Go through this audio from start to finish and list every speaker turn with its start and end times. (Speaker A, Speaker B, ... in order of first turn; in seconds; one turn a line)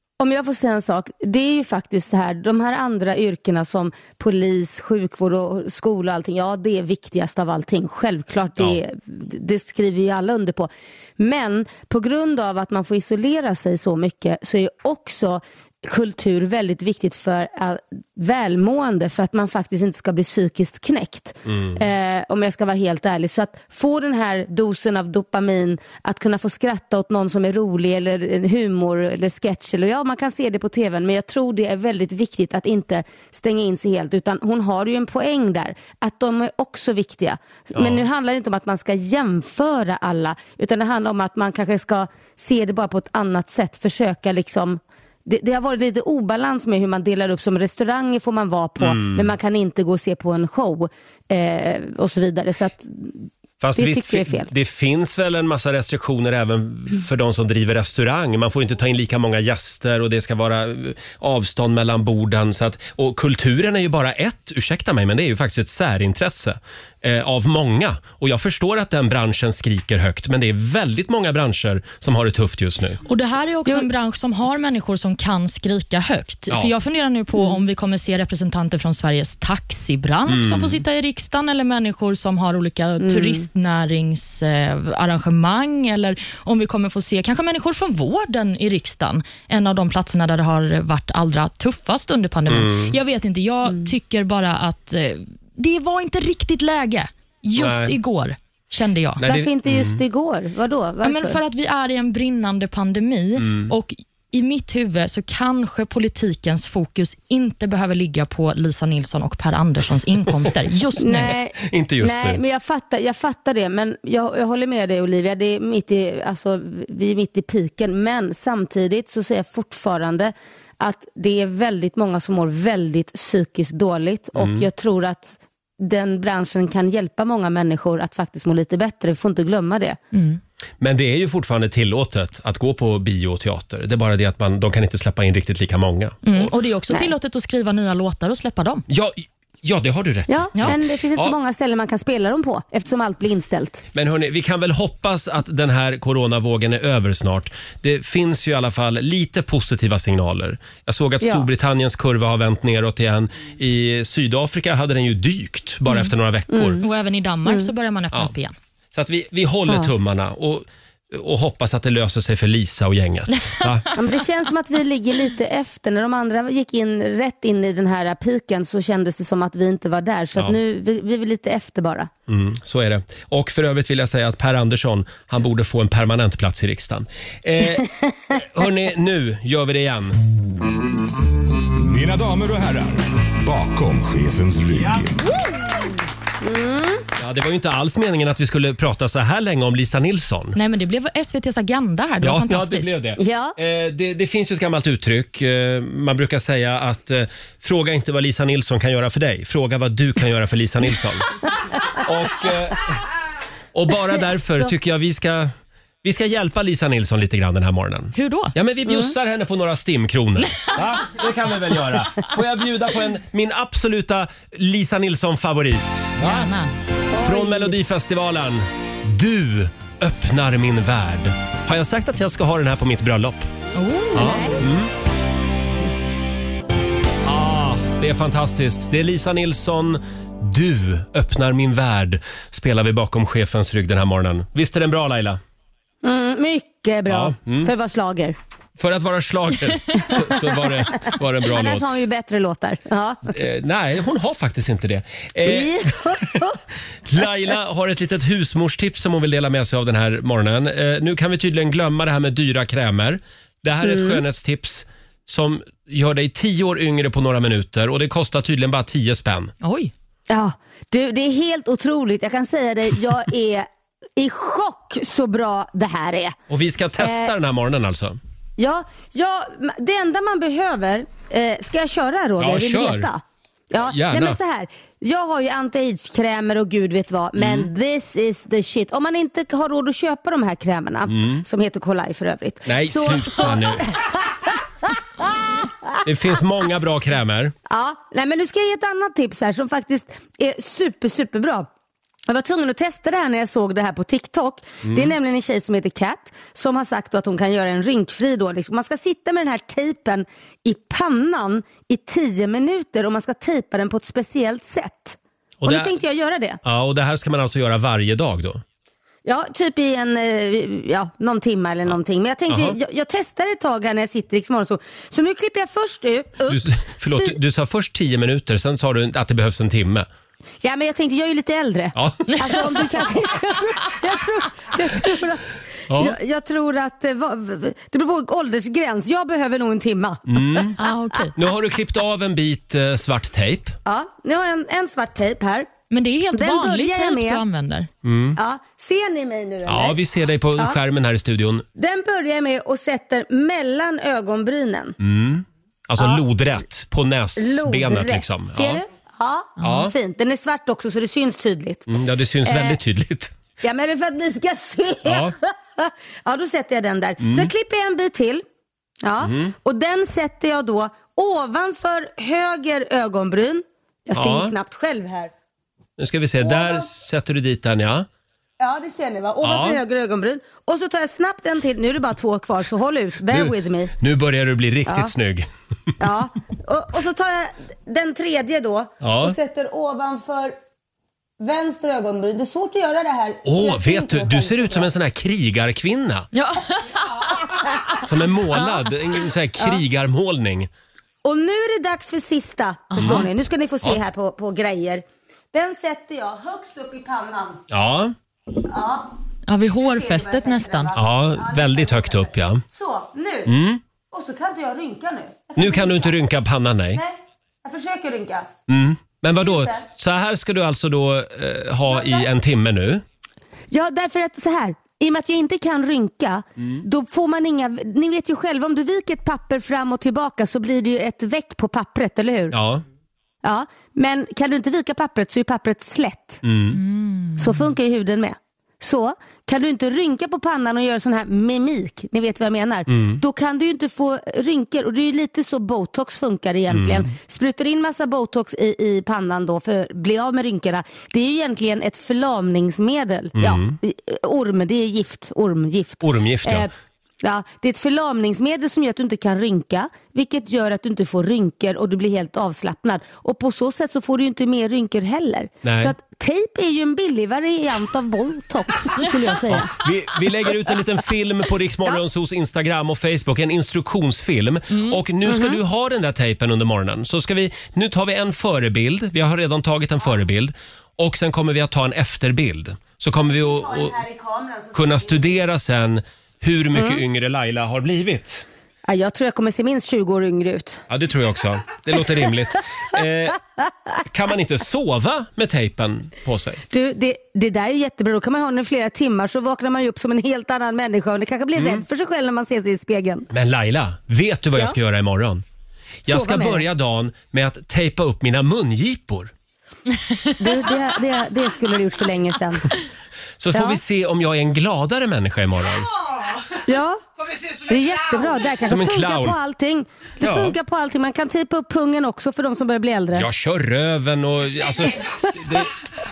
Speaker A: 0.2-54.5
Speaker B: 21.4-21.8
Speaker B: 37.7-38.0
Speaker B: 48.8-49.3
Speaker B: 53.6-73.0
Speaker C: 73.1-99.2
Speaker B: 80.3-80.8
Speaker A: 83.0-83.5
Speaker B: 92.5-93.0
Speaker B: 97.5-97.9
Speaker B: 99.2-100.0
Speaker A: 99.2-101.4
Speaker C: 101.0-111.3
Speaker B: 103.4-103.7
Speaker A: 111.0-130.0
Speaker B: 111.6-112.4
Speaker B: 124.3-124.7
Speaker C: 130.1-130.4
Speaker B: 130.8-136.5
Speaker C: 136.2-138.8
Speaker B: 138.9-141.3
Speaker A: 140.3-143.8
Speaker B: 143.9-156.8
Speaker A: 151.2-151.5
Speaker A: 156.5-156.8
Speaker C: 156.8-158.5
Speaker B: 158.9-163.9
Speaker A: 163.9-172.1
Speaker B: 172.3-180.2
Speaker D: 181.8-185.2
Speaker B: 184.7-185.0
Speaker A: 186.4-187.1
Speaker B: 187.2-190.6
Speaker C: 190.5-192.9
Speaker B: 192.2-201.3
Speaker A: 193.2-193.6
Speaker B: 202.0-202.9
Speaker B: 203.7-205.5
Speaker B: 206.0-216.5
Speaker C: 208.1-208.5
Speaker A: 208.8-209.1
Speaker C: 216.2-216.7
Speaker A: 217.1-217.8
Speaker B: 217.2-223.4
Speaker C: 223.8-224.5
Speaker A: 224.1-224.6
Speaker B: 224.1-224.9
Speaker B: 227.2-235.4
Speaker A: 236.0-238.3
Speaker B: 237.1-237.7
Speaker B: 238.8-242.0
Speaker A: 240.3-243.3
Speaker B: 243.3-246.4
Speaker A: 245.4-246.6
Speaker B: 247.1-259.5
Speaker A: 253.8-254.2
Speaker C: 259.6-259.9
Speaker A: 260.3-266.4
Speaker B: 266.5-268.2
Speaker A: 267.0-267.3
Speaker A: 268.6-286.0
Speaker B: 272.4-273.1
Speaker B: 273.8-274.4
Speaker B: 277.4-277.7
Speaker B: 281.1-281.4
Speaker B: 282.6-283.9
Speaker B: 286.0-287.5
Speaker A: 287.7-291.7
Speaker A: 292.3-306.6
Speaker B: 294.8-295.1
Speaker B: 305.6-305.9
Speaker B: 306.6-308.6
Speaker A: 309.2-317.4
Speaker B: 312.5-312.8
Speaker B: 316.5-320.1
Speaker A: 320.6-330.7
Speaker B: 321.9-322.6
Speaker B: 325.9-326.2
Speaker B: 330.3-330.8
Speaker C: 330.8-331.3
Speaker B: 331.3-333.8
Speaker A: 333.9-335.7
Speaker C: 335.9-337.9
Speaker A: 336.3-337.4
Speaker B: 338.0-338.4
Speaker A: 338.4-340.0
Speaker B: 339.6-341.6
Speaker A: 341.8-345.0
Speaker B: 345.0-348.8
Speaker A: 347.4-351.9
Speaker B: 349.6-349.9
Speaker B: 351.9-353.3
Speaker A: 352.4-352.8
Speaker A: 353.6-358.4
Speaker B: 355.0-355.3
Speaker B: 357.2-357.5
Speaker A: 359.0-365.3
Speaker B: 359.2-359.5
Speaker B: 364.1-364.5
Speaker B: 366.0-368.1
Speaker A: 366.4-366.9
Speaker A: 368.6-373.9
Speaker B: 369.4-369.8
Speaker B: 373.3-375.5
Speaker A: 374.9-375.1
Speaker A: 376.0-380.5
Speaker B: 379.0-379.3
Speaker A: 381.4-384.9
Speaker B: 383.4-386.3
Speaker C: 386.3-387.1
Speaker B: 388.0-390.7
Speaker A: 391.2-397.6
Speaker C: 392.9-393.2
Speaker B: 393.0-393.2
Speaker B: 397.7-398.1
Speaker A: 398.6-399.1
Speaker C: 399.5-400.9
Speaker A: 399.8-403.5
Speaker B: 400.9-402.6
Speaker B: 403.4-403.8
Speaker A: 404.1-406.2
Speaker B: 405.6-407.0
Speaker A: 406.9-408.5
Speaker B: 408.7-413.0
Speaker A: 409.4-409.8
Speaker A: 411.9-412.2
Speaker A: 413.7-422.6
Speaker B: 422.5-422.8
Speaker A: 423.4-426.4
Speaker B: 426.4-426.8
Speaker C: 426.7-427.6
Speaker A: 427.4-446.7
Speaker B: 432.9-433.2
Speaker B: 436.7-437.1
Speaker B: 443.4-443.8
Speaker B: 446.0-446.7
Speaker A: 447.2-459.8
Speaker B: 455.6-455.9
Speaker B: 459.5-473.9
Speaker C: 464.7-465.0
Speaker A: 465.2-465.6
Speaker A: 473.2-475.4
Speaker B: 474.7-478.4
Speaker A: 476.7-477.0
Speaker A: 478.9-480.8
Speaker B: 480.9-483.4
Speaker B: 484.1-486.6
Speaker A: 486.7-493.3
Speaker B: 491.5-491.8
Speaker B: 493.3-495.4
Speaker B: 496.0-499.3
Speaker A: 496.1-496.6
Speaker A: 500.4-502.7
Speaker B: 503.4-505.9
Speaker A: 503.5-503.8
Speaker A: 506.6-513.3
Speaker B: 508.6-509.4
Speaker B: 510.2-510.6
Speaker B: 513.1-515.7